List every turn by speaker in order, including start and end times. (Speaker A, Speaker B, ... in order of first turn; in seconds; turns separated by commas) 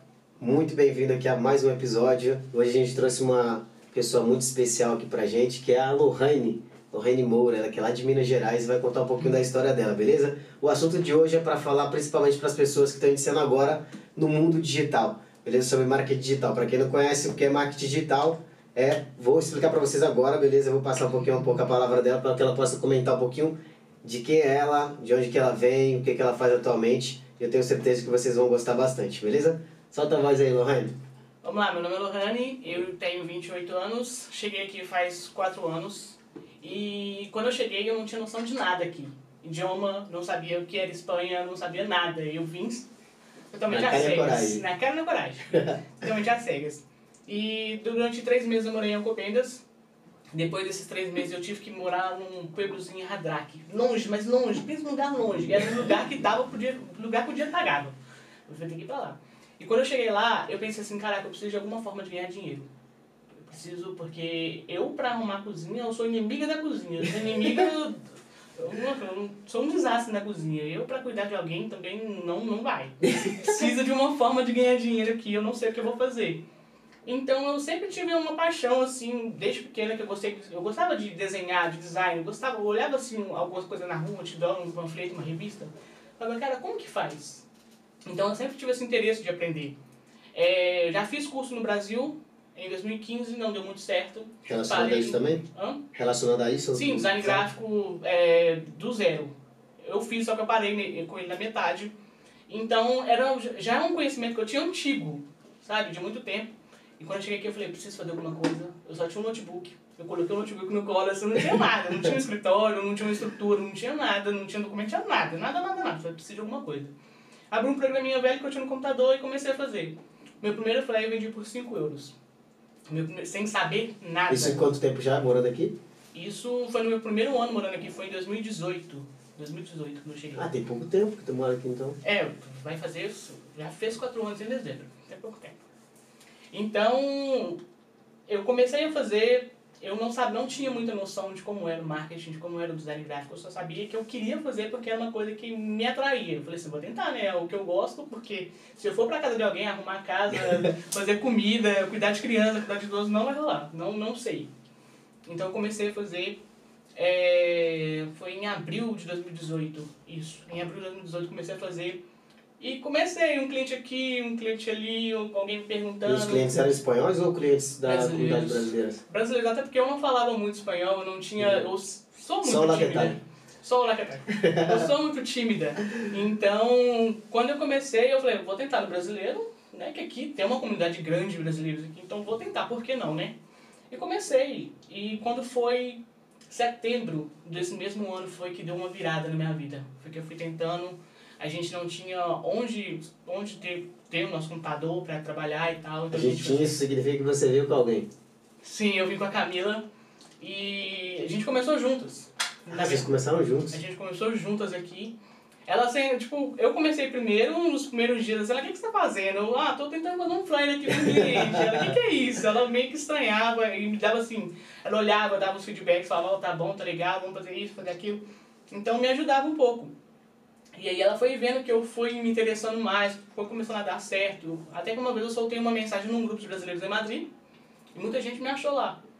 Speaker A: 0.4-30.9, Speaker B: 31.4-42.9, Speaker B: 43.5-49.6, Speaker A: 43.7-44.6, Speaker B: 50.3-58.0, Speaker B: 58.5-62.7, Speaker B: 63.5-76.4, Speaker B: 77.1-87.4, Speaker B: 88.1-89.8, Speaker B: 90.3-95.8, Speaker A: 94.5-97.4, Speaker B: 96.7-101.9, Speaker B: 102.5-116.9, Speaker B: 117.5-122.2, Speaker B: 122.9-124.7, Speaker A: 124.3-125.8, Speaker B: 126.1-130.4, Speaker A: 130.3-132.0, Speaker B: 132.0-135.6, Speaker B: 136.5-137.6, Speaker B: 138.3-154.5, Speaker A: 150.3-150.7, Speaker B: 155.3-156.4, Speaker B: 156.9-162.0, Speaker B: 162.6-166.8, Speaker A: 166.0-169.0, Speaker B: 167.8-183.3, Speaker A: 172.4-173.2, Speaker A: 174.3-174.9, Speaker B: 183.9-196.8, Speaker A: 196.1-198.1, Speaker B: 198.6-199.8, Speaker B: 200.4-203.1, Speaker A: 202.7-203.8, Speaker B: 203.7-205.1, Speaker B: 205.7-219.9, Speaker A: 210.9-211.9, Speaker B: 220.8-227.3, Speaker B: 227.9-229.0